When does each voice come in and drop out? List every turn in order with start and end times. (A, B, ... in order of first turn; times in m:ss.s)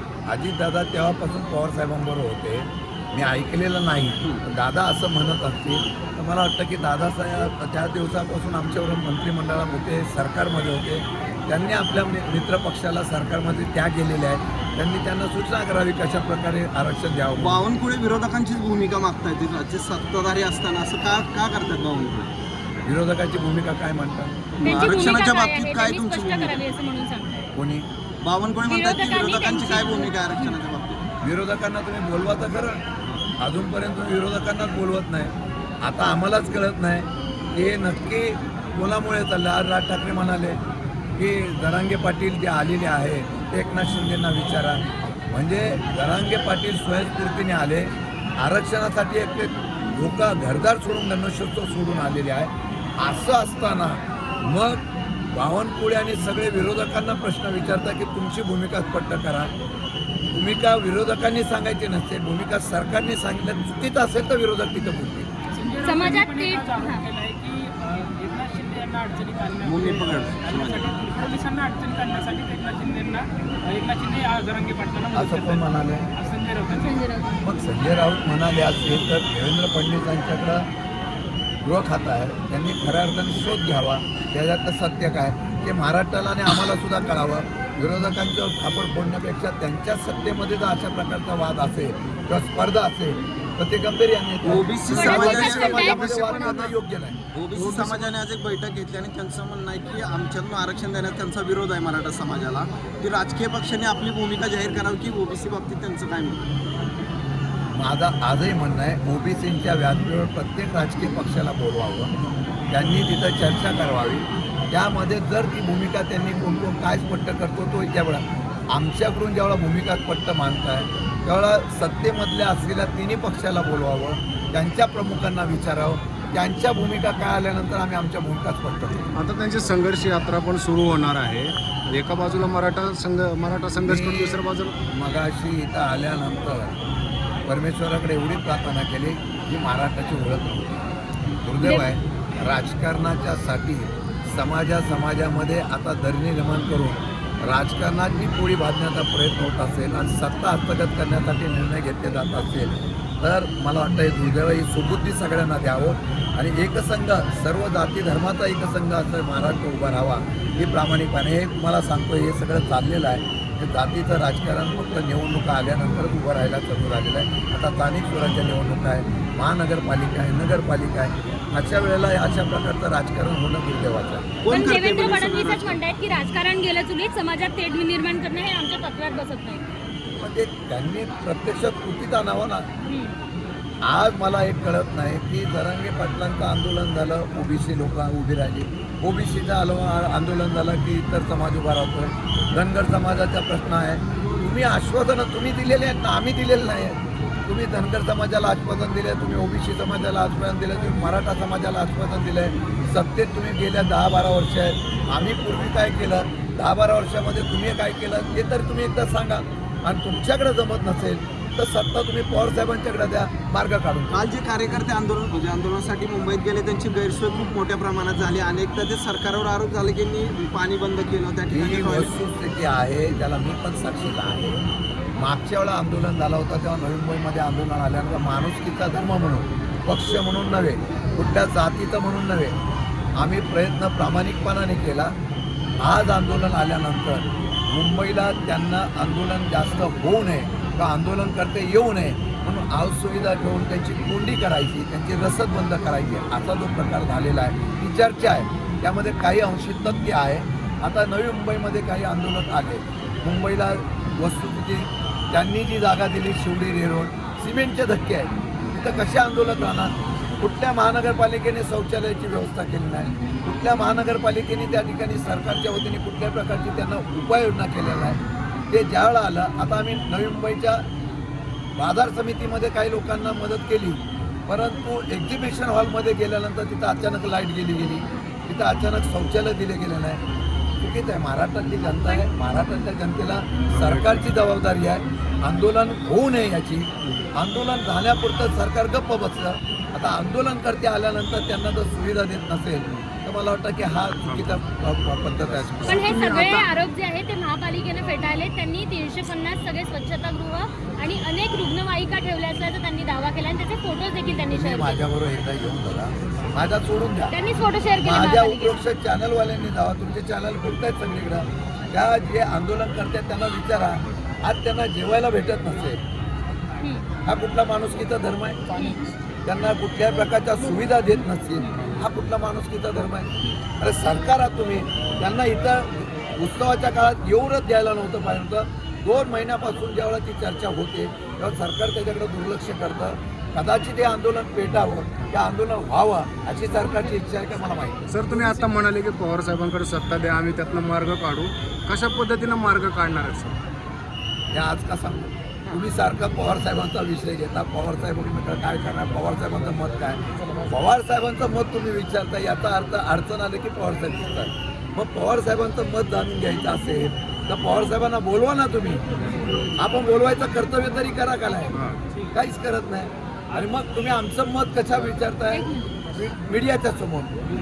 0:00.3-0:17.6 A
0:17.4-0:22.3 B
0:22.8-0:24.8 A
0:24.6-0:26.6 B
0:24.6-0:27.4 C
0:27.5-0:27.8 A
0:28.2-0:31.0 B
0:28.6-0:30.5 C
0:31.2-0:32.8 A
0:33.4-0:40.6 A
0:41.2-0:59.5 A
1:00.3-1:05.3 A
1:05.5-1:15.6 D
1:05.8-1:07.0 C
1:09.6-1:11.0 B
1:15.1-1:16.0 A
1:16.1-1:17.0 D
1:16.7-1:17.4 C
1:17.4-1:20.7 A
1:21.6-1:37.2 A
1:34.4-1:36.7 B
1:34.9-1:36.0 C
1:35.5-1:36.6 E
1:37.3-1:46.4 B
1:37.5-1:38.2 E
1:47.7-1:52.1 A
1:52.7-2:09.1 A
2:09.1-2:14.8 E
2:13.8-2:14.4 A
2:14.9-2:16.8 A
2:17.4-2:20.8 A
2:21.4-2:54.3 A
2:54.4-2:55.8 B
2:54.5-2:59.6 C
3:00.1-3:02.7 A
3:02.9-3:03.2 C
3:03.8-3:34.2 A
3:34.1-3:42.1 B
3:41.5-3:44.6 A
3:45.2-3:52.6 A
3:53.2-3:55.1 A
3:55.8-4:28.2 A
4:28.7-4:30.8 A
4:31.8-4:40.2 A
4:40.8-4:56.3 A
4:41.8-4:42.2 C
4:43.7-4:44.2 E
4:54.2-4:54.5 E
4:55.8-4:56.7 E
4:55.9-5:05.0 C
5:04.5-5:07.3 A
5:07.3-5:08.8 C
5:08.0-5:16.0 A
5:16.8-5:17.0 C
5:17.2-5:18.6 A
5:18.7-5:19.0 C
5:19.4-5:38.6 A
5:21.6-5:21.9 C
5:38.1-5:43.6 E
5:44.5-5:59.0 A
5:59.8-6:01.7 A
6:01.7-6:02.0 E
6:02.3-6:07.4 A
6:05.5-6:06.0 C